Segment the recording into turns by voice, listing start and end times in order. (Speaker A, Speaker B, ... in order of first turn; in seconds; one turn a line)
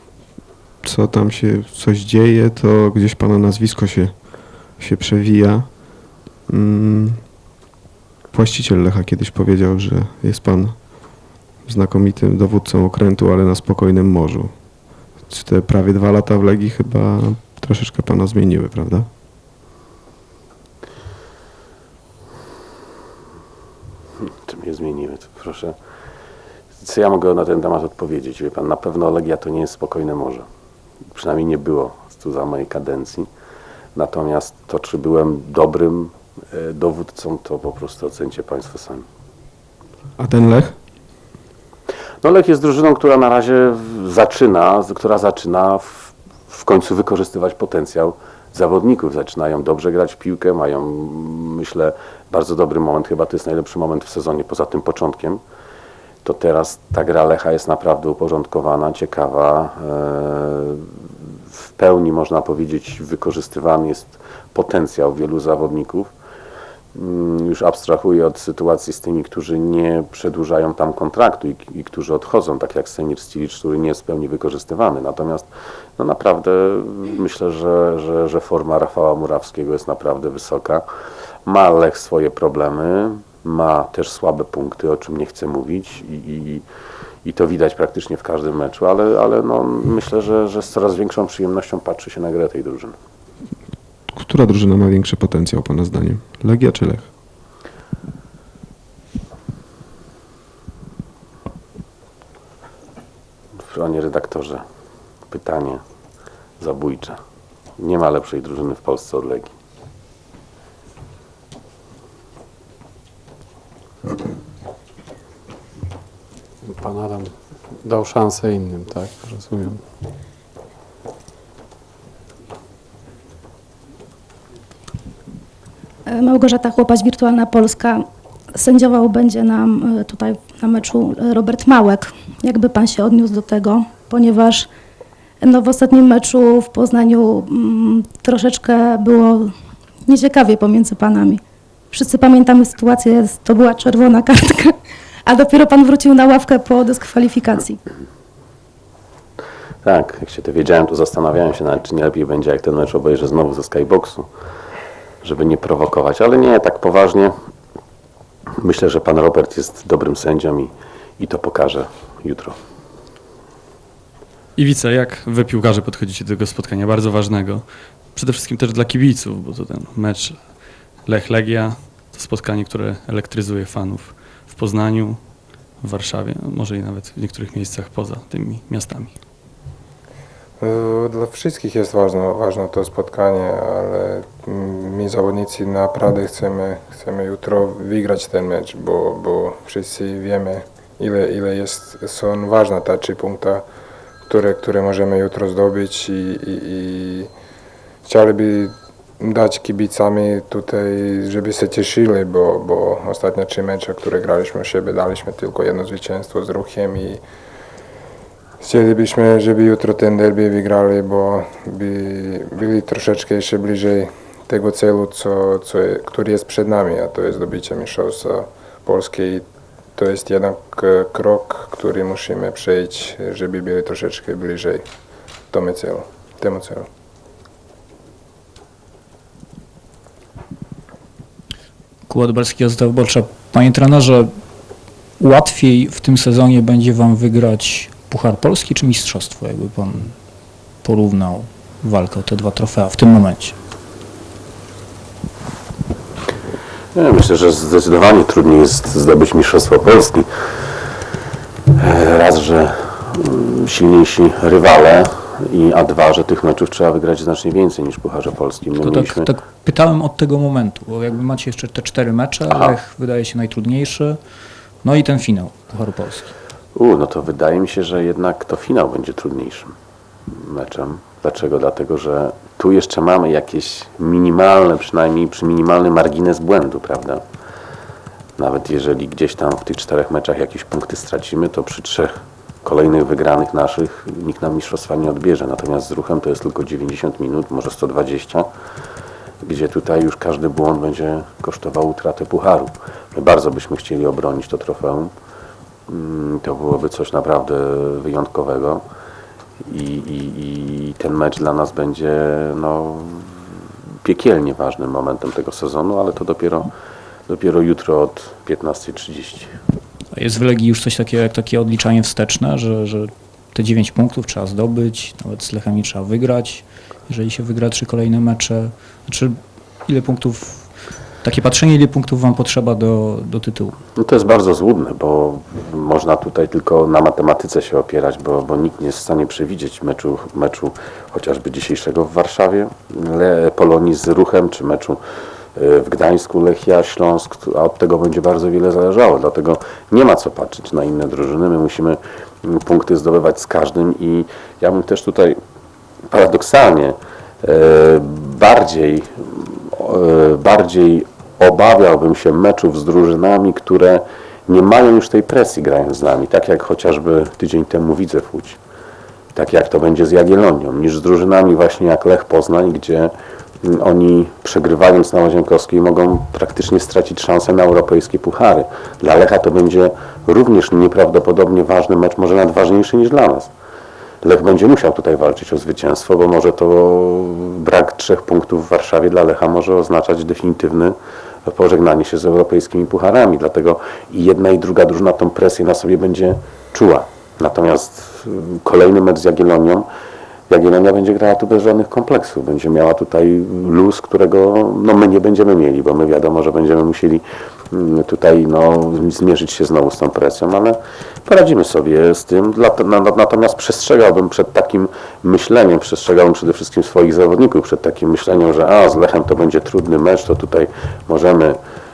Speaker A: 0.8-5.7
Speaker A: 6.5-7.2
Speaker A: 8.3-14.5
Speaker A: 15.2-19.1
Speaker B: 24.4-25.8
Speaker B: 26.8-30.5
Speaker B: 31.1-33.3
Speaker B: 34.0-39.0
Speaker A: 40.2-40.8
Speaker B: 42.2-55.4
Speaker B: 56.2-60.9
Speaker B: 61.5-66.1
Speaker B: 67.0-80.8
Speaker B: 81.5-86.6
Speaker B: 87.2-93.0
Speaker A: 94.1-97.1
Speaker B: 103.7-104.6
Speaker B: 105.3-105.8
Speaker B: 106.6-107.2
Speaker B: 107.8-109.5
Speaker C: 116.6-119.8
Speaker D: 126.0-134.7
Speaker D: 135.4-139.5
Speaker D: 140.1-147.8
Speaker B: 149.8-154.3
Speaker B: 155.2-157.3
Speaker B: 158.6-162.6
Speaker E: 164.6-175.2
Speaker E: 175.8-179.1
Speaker F: 180.6-193.6
Speaker F: 194.3-197.3
Speaker F: 198.0-207.2
Speaker F: 208.6-219.4
Speaker F: 219.9-224.8
Speaker F: 225.5-226.9
Speaker G: 232.1-234.3
Speaker G: 235.2-240.2
Speaker G: 240.8-243.6
Speaker B: 246.9-250.3
Speaker B: 251.8-259.3
Speaker G: 258.8-264.2
Speaker G: 264.8-266.3
Speaker B: 266.8-269.7
Speaker B: 270.3-277.2
Speaker B: 278.4-282.1
Speaker B: 282.6-288.5
Speaker B: 289.4-295.1
Speaker B: 295.9-298.9
Speaker B: 299.7-303.3
Speaker B: 304.0-306.7
Speaker B: 307.3-309.5
Speaker G: 310.1-320.7
Speaker G: 321.2-323.8
Speaker B: 324.0-335.0
Speaker B: 335.6-345.4
Speaker B: 346.1-358.6
Speaker B: 359.4-363.1
Speaker B: 363.6-373.5
Speaker B: 374.2-389.9
Speaker B: 390.5-411.6